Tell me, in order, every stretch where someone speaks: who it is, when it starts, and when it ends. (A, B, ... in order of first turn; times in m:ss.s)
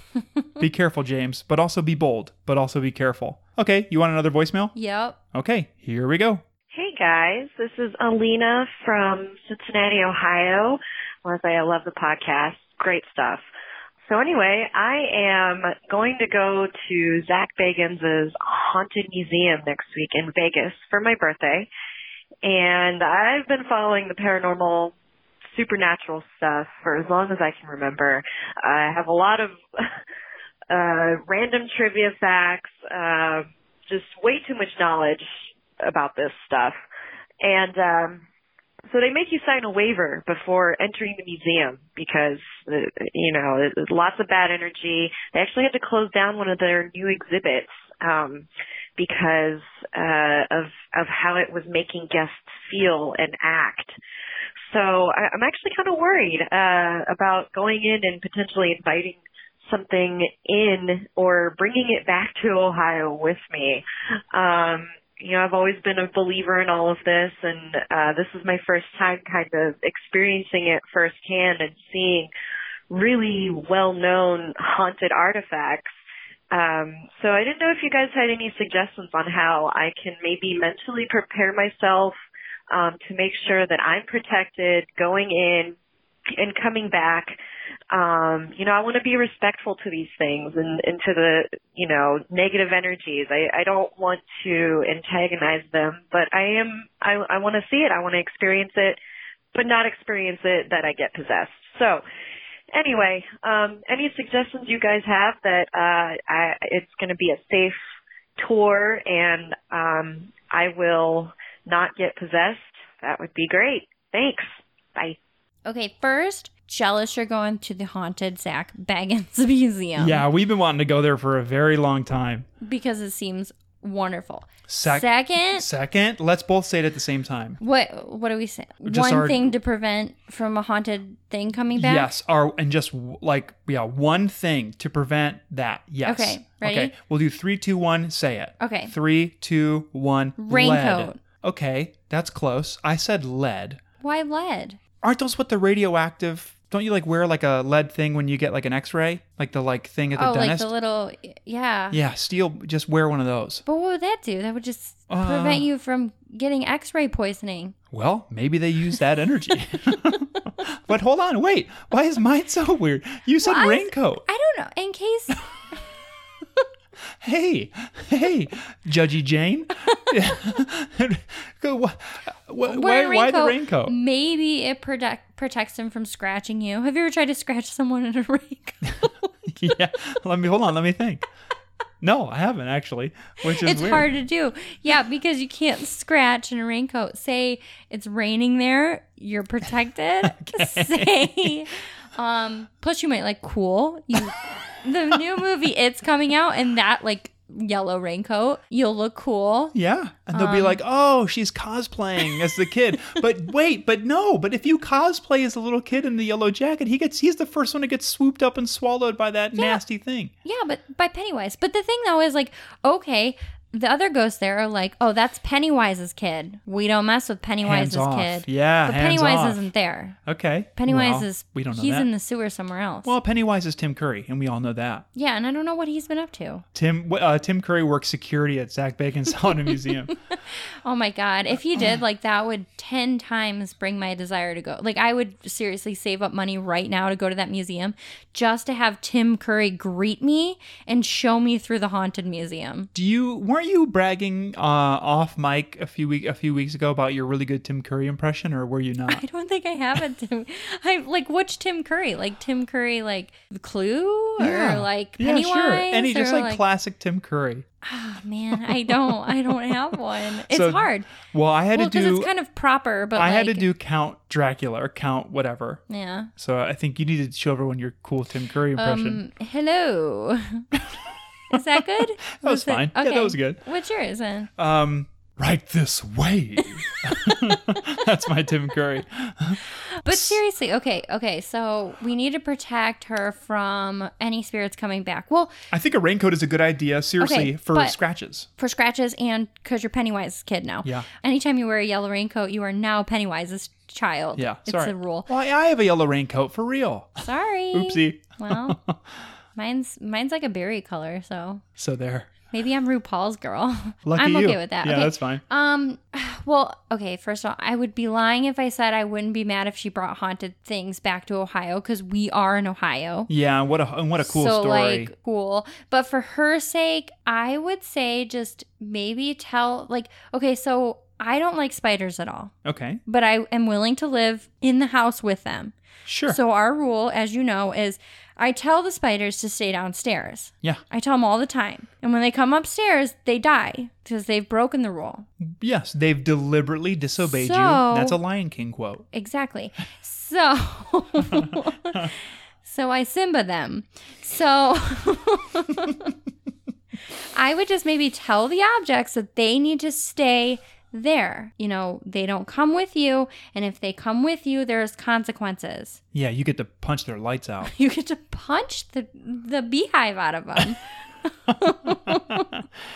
0:00.2-0:00.6 A
0:00.6-0:04.7 B
0:04.7-0:05.2 A
0:05.3-0:06.4 B
0:06.7-0:13.4 C
0:14.1-0:21.7 C
0:22.4-0:24.9 C
0:25.5-0:29.6 C
0:30.7-0:35.3 C
0:35.8-0:36.8 C
0:37.4-0:38.2 C
0:38.9-0:48.4 C
0:49.0-0:53.9 C
0:54.7-1:12.3 C
1:12.9-1:15.9 C
1:16.5-1:22.2 C
1:22.7-1:25.7 C
1:26.3-1:27.3 C
1:27.9-1:39.0 C
1:39.5-1:42.0 C
1:42.7-1:47.8 C
1:48.4-1:55.2 C
1:55.7-2:00.2 A
2:00.0-2:02.5 B
2:02.6-2:05.6 A
2:04.7-2:07.6 B
2:07.6-2:12.1 A
2:08.8-2:09.6 B
2:11.7-2:23.8 B
2:16.0-2:16.9 A
2:18.6-2:18.9 A
2:20.4-2:21.2 A
2:24.0-2:24.8 A
2:25.0-2:30.7 B
2:30.1-2:32.0 A
2:31.9-2:33.6 B
2:33.7-2:37.8 A
2:35.1-2:35.7 B
2:37.9-2:44.2 B
2:43.4-2:45.4 A
2:47.2-2:54.0 B
2:52.6-2:59.3 A
2:59.5-3:01.3 B
3:02.0-3:04.1 B
3:03.4-3:19.7 A
3:10.2-3:11.6 B
3:19.7-3:30.3 B
3:20.3-3:20.8 A
3:30.4-3:40.2 A
3:37.6-3:39.6 B
3:40.3-3:42.1 B
3:40.8-3:43.1 A
3:43.0-3:45.0 B
3:45.1-3:46.6 A
3:46.7-3:50.1 B
3:49.9-4:02.9 A
4:02.9-4:09.2 B
4:09.1-4:16.6 A
4:14.4-4:17.7 B
4:17.8-4:21.1 A
4:18.6-4:19.7 B
4:20.5-4:22.3 B
4:21.7-4:23.7 A
4:23.1-4:25.8 B
4:25.9-4:26.3 A
4:26.4-4:29.2 B
4:28.8-4:30.7 A
4:31.5-4:34.5 A
4:31.5-4:33.6 B
4:34.6-4:40.4 B
4:37.1-4:37.6 A
4:39.9-4:45.5 A
4:45.7-4:48.5 B
4:47.2-4:48.0 A
4:48.6-4:55.3 A
4:54.4-4:59.0 B
4:57.2-4:58.8 A
4:59.6-5:01.6 A
5:01.8-5:02.3 B
5:02.5-5:13.3 A
5:04.0-5:05.4 B
5:13.3-5:15.1 B
5:14.2-5:22.5 A
5:22.6-5:23.0 B
5:23.0-5:25.7 A
5:26.0-5:26.4 B
5:26.3-5:35.3 A
5:35.4-5:39.0 B
5:37.2-5:38.2 A
5:39.1-5:46.1 A
5:41.3-5:42.1 B
5:47.4-5:56.0 A
5:56.1-5:57.7 B
5:57.6-6:02.5 A
6:01.9-6:02.6 B